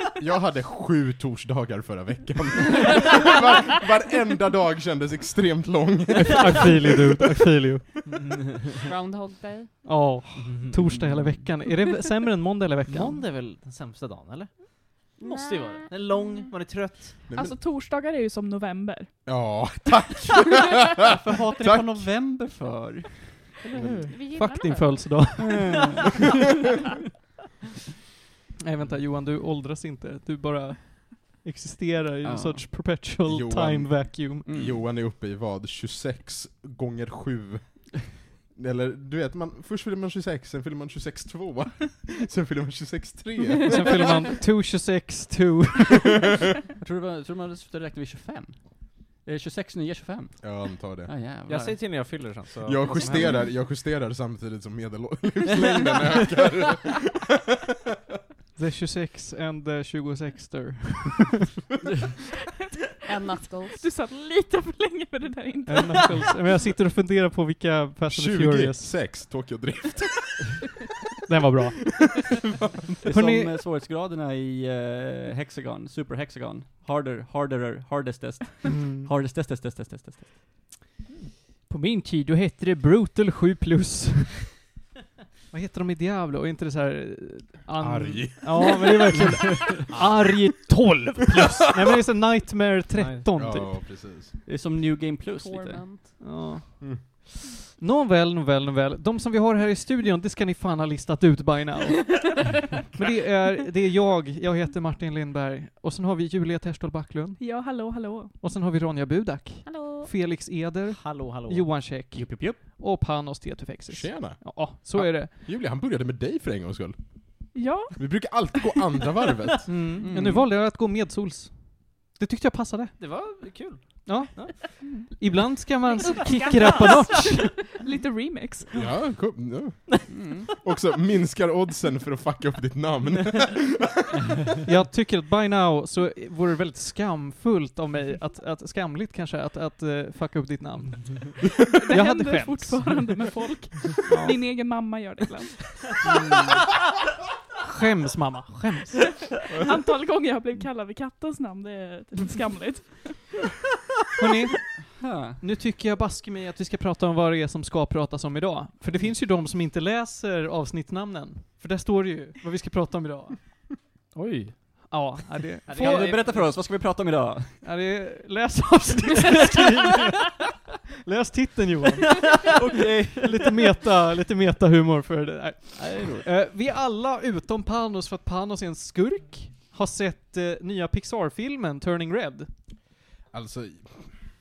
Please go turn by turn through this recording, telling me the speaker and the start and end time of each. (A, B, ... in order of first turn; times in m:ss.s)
0:00.2-0:07.2 A
0:06.4-0:07.9 B
0:08.0-0:08.8 C
0:08.8-0:09.8 D
0:09.8-0:13.2 B
0:10.4-0:10.8 C
0:10.9-0:11.4 A
0:12.9-0:17.3 C
0:15.2-0:16.5 D
0:17.3-0:17.6 A
0:17.3-0:19.4 E
0:19.2-0:22.1 A
0:21.2-0:23.4 F
0:23.6-0:24.1 C
0:23.7-0:24.0 A
0:24.0-0:25.2 D
0:24.2-0:26.0 B
0:25.4-0:26.1 F
0:28.6-0:34.5 B
0:32.2-0:32.7 F
0:33.2-0:44.3 A
0:34.4-0:34.8 F
0:43.7-0:46.2 B
0:46.8-0:51.8 F
0:50.4-0:51.1 A
0:51.5-0:53.4 C
0:52.6-0:57.3 A
0:58.6-1:01.4 B
1:03.1-1:03.8 D
1:03.7-1:06.4 E
1:05.7-1:09.0 B
1:08.1-1:10.8 A
1:11.3-1:12.0 B
1:12.0-1:12.3 A
1:13.0-1:20.4 F
1:13.1-1:13.5 B
1:18.6-1:19.1 B
1:21.7-1:24.6 B
1:25.5-1:33.8 B
1:27.8-1:28.7 A
1:29.9-1:30.2 A
1:32.9-1:33.2 C
1:33.3-1:34.3 A
1:34.4-1:35.9 F
1:35.3-1:36.2 D
1:36.2-1:42.4 B
1:42.9-1:47.5 B
1:47.4-1:48.3 E
1:48.4-1:55.3 B
1:49.6-1:50.1 D
1:50.9-1:51.7 C
1:52.1-1:52.6 F
1:53.9-1:59.7 A
1:57.5-1:57.9 E
1:59.7-2:03.0 B
2:00.0-2:00.4 F
2:03.0-2:04.5 C
2:04.0-2:07.6 B
2:04.8-2:05.1 E
2:05.9-2:07.7 D
2:07.2-2:08.8 E
2:08.7-2:14.2 A
2:10.1-2:10.5 F
2:14.6-2:23.0 B
2:21.7-2:25.5 E
2:24.0-2:24.4 B
2:26.0-2:26.6 F
2:27.6-2:29.2 B
2:29.5-2:33.3 E
2:34.2-2:43.4 B
2:35.0-2:35.4 F
2:44.1-2:44.6 C
2:44.9-2:46.2 B
2:45.6-2:46.5 C
2:45.7-2:47.6 F
2:47.6-2:52.5 B
2:52.5-2:53.2 F
2:53.2-3:02.5 B
2:55.8-2:56.2 C
3:03.3-3:04.3 A